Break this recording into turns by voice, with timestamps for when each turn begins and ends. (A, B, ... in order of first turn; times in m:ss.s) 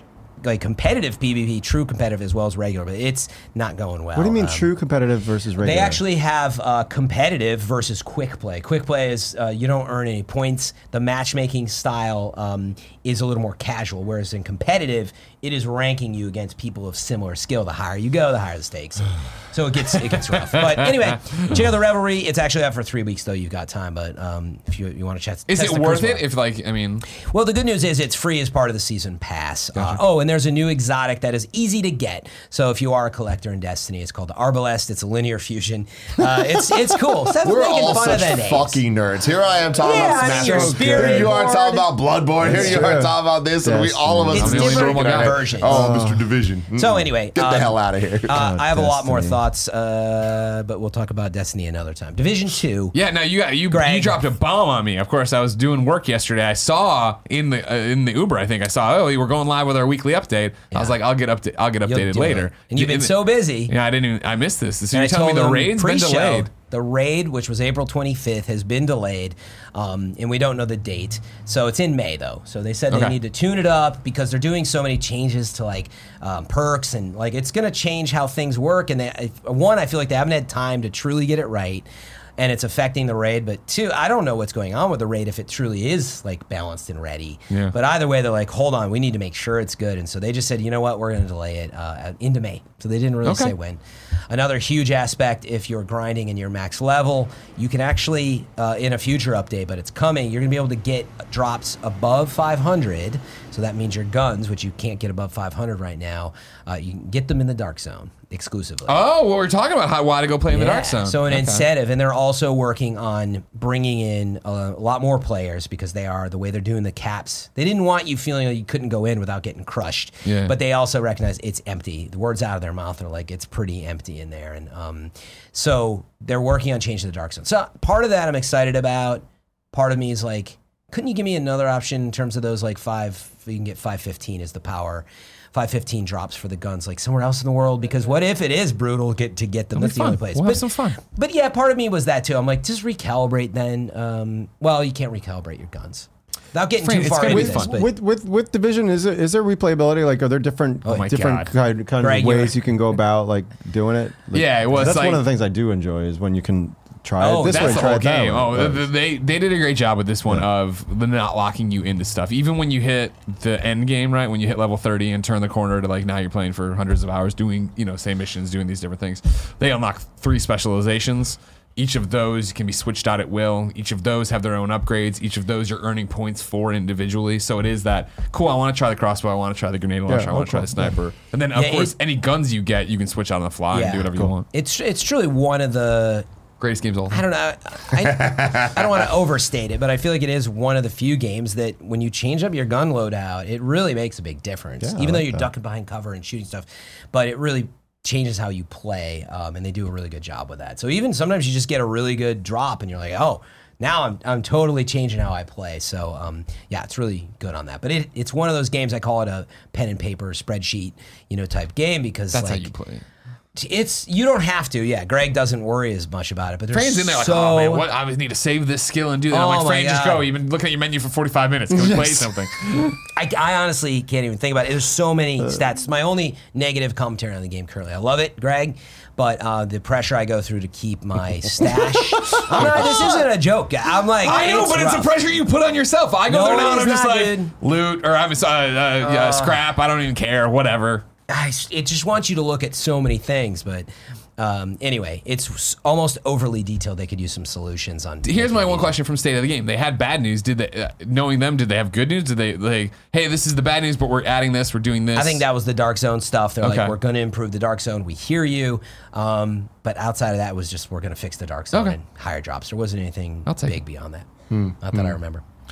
0:00.4-0:04.7 A
0:04.1-0:06.0 B
0:05.6-0:26.3 A
0:25.5-0:27.1 C
0:27.1-0:38.8 A
0:29.7-0:30.0 C
0:37.4-0:48.4 D
0:39.8-0:41.9 A
0:40.0-0:40.8 C
0:40.3-0:41.4 B
0:42.4-0:44.6 B
0:42.4-0:42.9 A
0:44.3-0:46.0 A
0:44.3-0:45.5 C
0:45.6-0:46.3 B
0:46.7-0:53.0 A
0:48.3-0:49.4 B
0:52.9-1:06.5 C
0:53.7-0:54.2 A
1:00.7-1:01.0 A
1:01.8-1:03.7 A
1:04.9-1:21.9 A
1:12.9-1:13.2 C
1:22.4-1:49.0 A
1:33.2-1:33.6 C
1:48.9-1:51.7 C
1:50.5-2:27.9 A
2:00.3-2:00.5 C
2:19.7-2:21.0 C
2:26.8-2:27.8 C
2:27.3-2:38.9 B
2:30.9-2:31.5 C
2:32.0-2:32.6 A
2:34.3-2:35.2 C
2:37.2-2:37.9 A
2:37.4-3:04.5 C
3:00.1-3:01.0 B
3:01.6-3:01.9 A
3:03.7-3:06.3 A
3:06.6-3:07.2 C
3:07.1-3:32.7 A
3:08.1-3:08.8 D
3:14.8-3:15.5 B
3:32.3-3:33.0 C
3:33.6-3:37.8 A
3:36.7-3:43.0 C
3:39.3-3:40.3 A
3:43.1-3:55.1 A
3:52.1-3:53.1 C
3:54.2-4:01.1 C
3:56.3-3:57.5 A
3:59.0-3:59.6 A
4:01.3-4:08.9 A
4:08.2-4:15.4 C
4:15.1-4:24.3 A
4:16.6-4:16.9 C
4:23.5-4:23.8 C
4:24.5-4:25.2 D
4:24.8-4:25.4 A